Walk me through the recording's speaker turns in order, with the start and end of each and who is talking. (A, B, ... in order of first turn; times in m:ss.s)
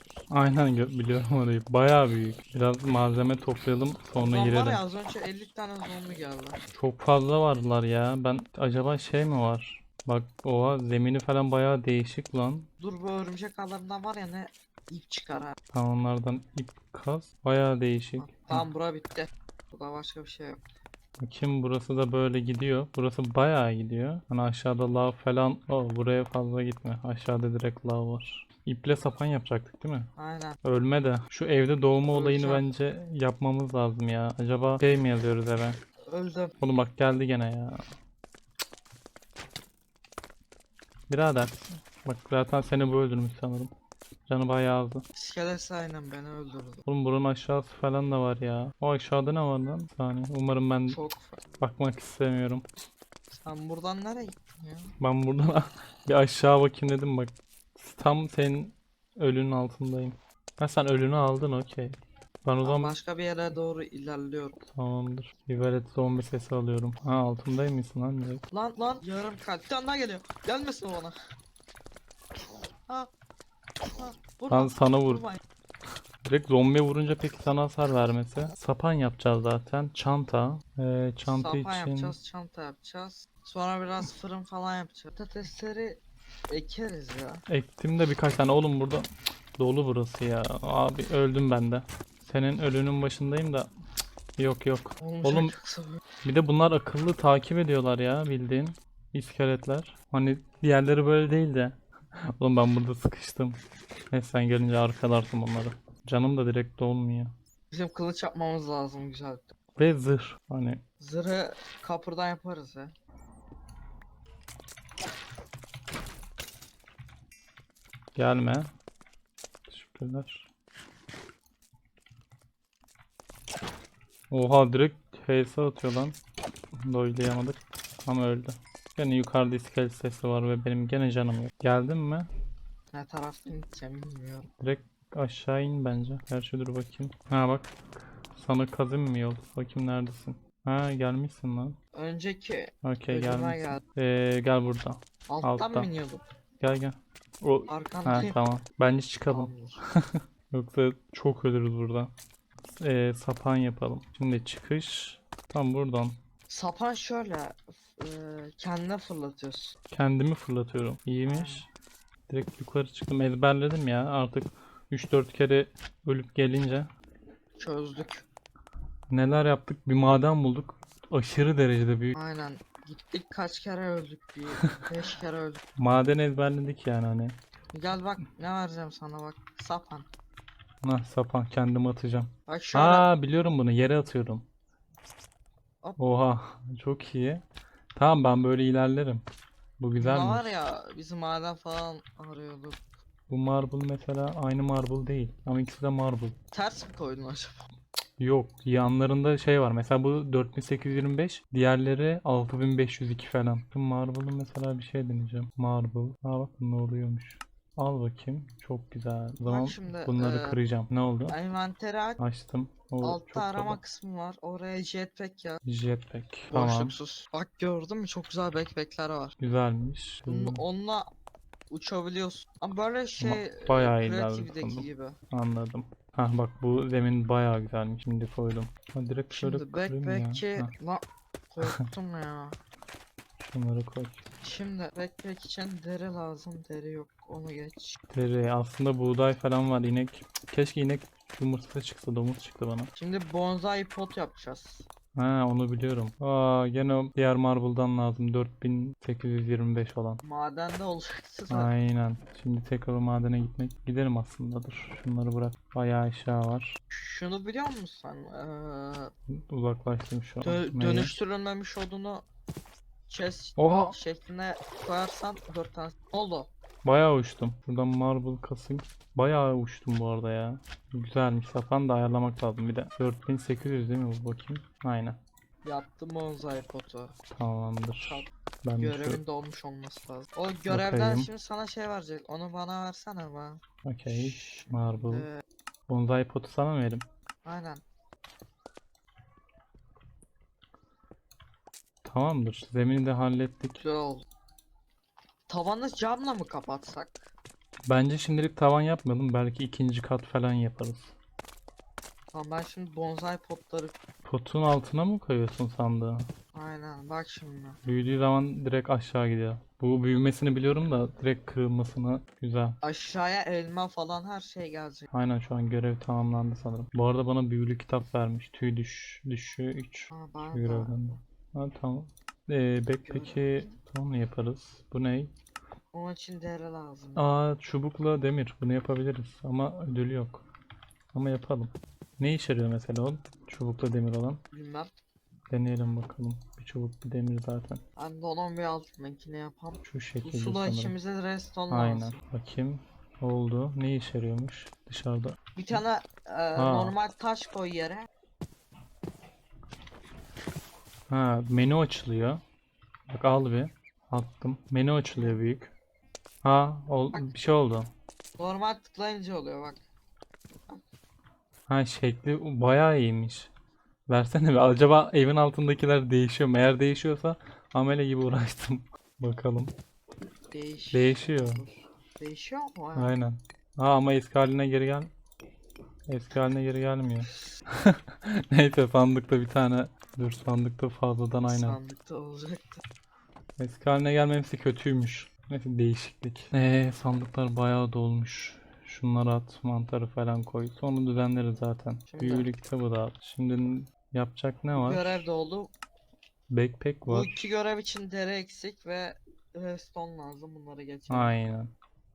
0:00.3-0:04.8 A
0:04.2-0:06.6 B
0:06.7-0:12.7 A
0:12.8-0:15.6 B
0:15.7-0:18.7 A
0:18.2-0:20.6 B
0:21.2-0:30.1 A
0:30.2-0:30.6 B
0:30.6-0:35.8 A
0:32.1-0:32.6 B
0:36.1-0:36.6 B
0:36.6-0:37.8 A
0:41.1-0:43.7 A
0:44.3-0:45.0 A
0:45.1-0:46.8 B
0:46.8-0:51.0 A
0:50.9-0:51.4 B
0:51.6-0:52.6 A
0:53.3-0:54.9 B
0:55.0-1:03.0 A
1:02.6-1:04.6 B
1:04.6-1:08.4 A
1:08.5-1:11.1 B
1:13.8-1:15.4 B
1:14.5-1:15.3 A
1:16.2-1:22.2 A
1:21.3-1:27.4 B
1:27.5-1:33.7 A
1:34.4-1:35.5 A
1:35.0-1:36.0 B
1:36.2-1:41.8 A
1:42.4-1:47.3 A
1:47.7-1:49.4 B
1:49.8-1:50.8 A
1:51.0-1:52.9 B
1:58.1-1:58.7 A
1:59.7-2:00.5 A
2:04.3-2:06.2 A
2:06.8-2:12.3 A
2:12.9-2:14.5 B
2:14.6-2:17.7 A
2:18.3-2:21.8 A
2:21.9-2:23.8 B
2:22.8-2:25.9 A
2:25.3-2:26.2 B
2:26.6-2:32.1 A
2:27.7-2:28.4 B
2:29.3-2:29.8 B
2:32.6-2:36.2 A
2:36.5-2:39.8 B
2:39.9-2:41.7 A
2:41.2-2:41.6 B
2:42.3-2:46.9 A
2:47.6-2:48.2 B
2:49.1-2:52.2 A
2:52.1-2:55.6 B
2:54.6-2:54.9 A
2:55.8-2:57.4 A
2:57.7-3:00.1 B
3:00.8-3:04.4 A
3:02.5-3:03.1 B
3:06.0-3:07.4 A
3:07.9-3:09.2 A
3:09.8-3:10.6 A
3:10.0-3:12.8 B
3:13.3-3:16.4 A
3:16.5-3:17.6 B
3:18.2-3:31.4 A
3:29.4-3:30.6 B
3:31.3-3:32.2 B
3:32.2-3:33.8 A
3:33.0-3:35.6 B
3:35.6-3:37.0 A
3:36.5-3:39.4 B
3:39.4-3:40.6 A
3:40.3-3:41.1 B
3:41.7-3:45.2 B
3:43.2-3:50.7 A
3:49.3-3:52.6 B
3:53.4-3:54.2 A
3:54.4-3:58.0 B
3:58.1-4:02.9 A
4:03.0-4:04.9 B
4:05.1-4:10.2 A
4:10.2-4:11.7 B
4:11.5-4:16.8 A
4:16.9-4:19.1 B
4:19.3-4:21.2 A
4:20.4-4:22.2 B
4:23.1-4:26.5 B
4:23.6-4:24.0 A
4:26.8-4:35.2 A
4:35.6-4:37.2 B
4:37.3-4:39.2 A
4:38.0-4:45.4 B
4:40.7-4:41.3 A
4:43.8-4:45.3 A
4:45.9-4:47.0 A
4:47.4-4:47.8 B
4:52.0-4:53.8 A
4:53.8-4:54.2 B
4:55.5-4:57.3 B
4:57.9-5:01.1 A
5:02.3-5:04.0 B
5:04.2-5:06.3 A
5:06.5-5:07.8 B
5:07.8-5:12.8 A
5:12.8-5:15.1 B
5:15.1-5:25.3 A
5:20.1-5:21.0 B
5:23.0-5:23.7 B
5:25.9-5:27.2 B
5:27.2-5:30.4 A
5:31.1-5:34.4 A
5:34.5-5:34.9 B
5:35.5-5:37.8 A
5:38.0-5:42.2 B
5:39.8-5:40.9 A
5:41.7-5:45.4 A
5:45.6-5:48.1 B
5:46.6-5:47.0 A
5:51.1-5:52.4 A
5:53.1-5:55.7 A
5:55.1-5:55.4 B
5:56.4-5:57.9 A
5:58.4-5:59.8 B
6:01.7-6:03.5 A
6:04.1-6:09.7 A
6:10.5-6:13.2 B
6:10.9-6:11.6 A
6:13.0-6:15.1 A
6:16.1-6:21.8 A
6:21.5-6:22.8 B
6:23.6-6:35.3 A
6:32.1-6:32.5 B
6:34.8-6:35.7 B
6:36.5-6:37.5 A
6:37.1-6:41.4 B
6:41.1-6:41.7 A